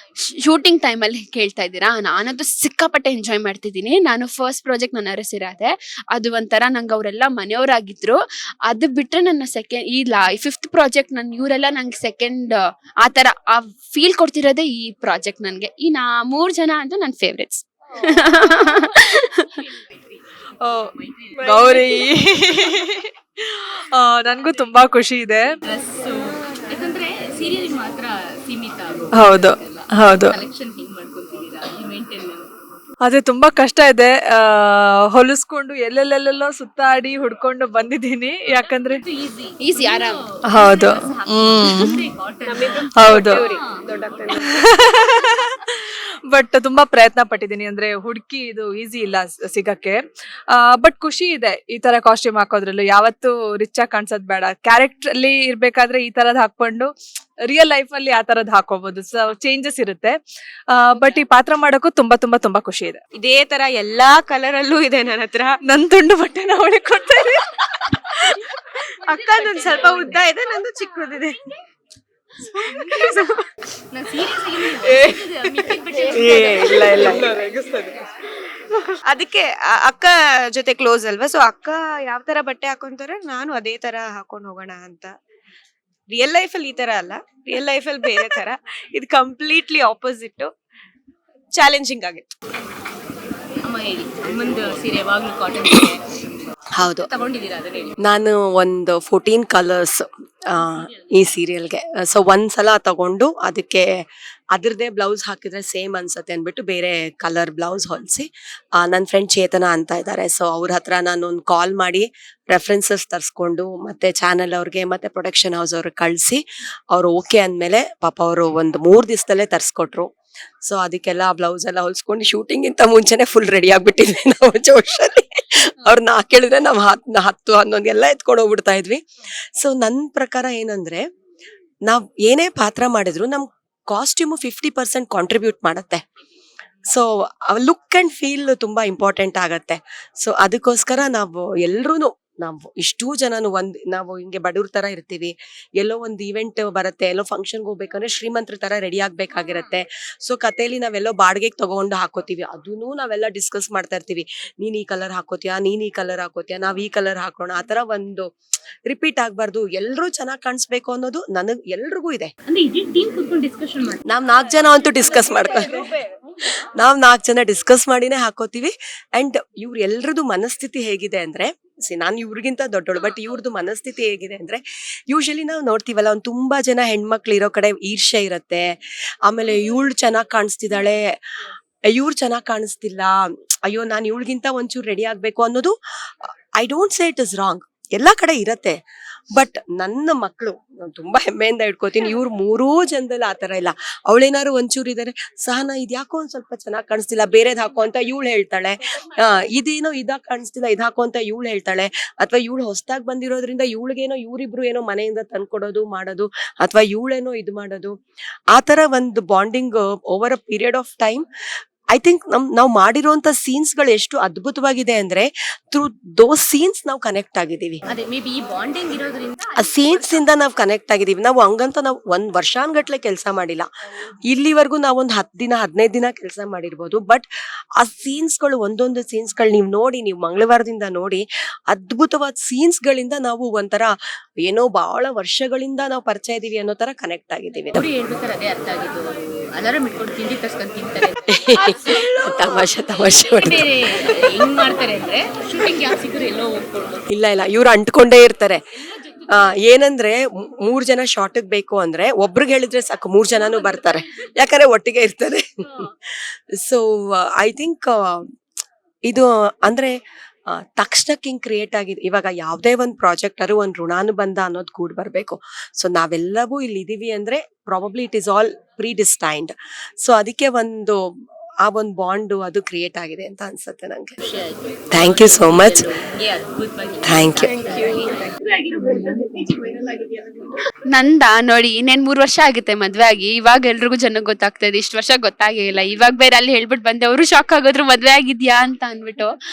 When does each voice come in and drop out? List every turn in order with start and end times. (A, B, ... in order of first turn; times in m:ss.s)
0:00.2-0:19.5 A
0:18.5-0:18.8 B
0:20.6-0:25.5 C
0:20.8-0:21.9 B
0:25.7-0:32.5 B
0:29.1-0:30.4 C
0:33.0-0:39.0 C
0:38.7-0:44.5 B
0:39.6-0:40.2 A
0:40.5-0:42.1 C
0:42.4-0:44.6 D
0:43.0-0:43.4 C
0:44.4-0:45.8 C
0:46.3-0:50.0 C
0:50.5-0:56.9 C
0:57.5-1:00.2 C
1:00.7-1:03.0 C
1:03.2-1:05.6 D
1:05.7-1:08.3 C
1:09.0-1:11.4 D
1:09.4-1:10.2 B
1:12.6-1:13.4 D
1:12.9-1:13.2 B
1:13.9-1:17.4 B
1:14.8-1:18.0 D
1:16.1-1:17.2 E
1:19.1-1:25.1 D
1:26.1-1:30.5 D
1:31.6-1:32.2 D
1:33.6-1:36.0 B
1:36.8-1:37.1 E
1:36.9-1:38.0 B
1:38.0-1:43.9 E
1:44.5-2:00.1 E
2:00.7-2:09.0 E
2:09.6-2:11.0 E
2:11.9-2:16.0 E
2:16.9-2:38.3 E
2:38.9-2:42.3 E
2:42.5-2:44.0 B
2:44.1-2:45.8 E
2:46.8-3:01.1 E
3:01.9-3:08.8 E
3:09.4-3:27.9 E
3:28.5-3:31.2 E
3:31.9-3:37.8 E
3:37.9-3:40.2 B
3:39.6-3:43.7 E
3:44.3-3:47.3 E
3:47.8-3:57.9 E
3:57.7-4:07.1 B
4:01.3-4:03.6 E
4:07.1-4:08.6 E
4:09.0-4:09.4 B
4:09.3-4:15.4 E
4:13.5-4:14.0 B
4:16.1-4:18.3 E
4:19.1-4:19.9 E
4:20.5-4:31.1 E
4:31.6-4:34.2 E
4:34.2-4:40.3 B
4:34.9-4:35.9 E
4:37.0-4:37.6 E
4:40.9-4:49.3 A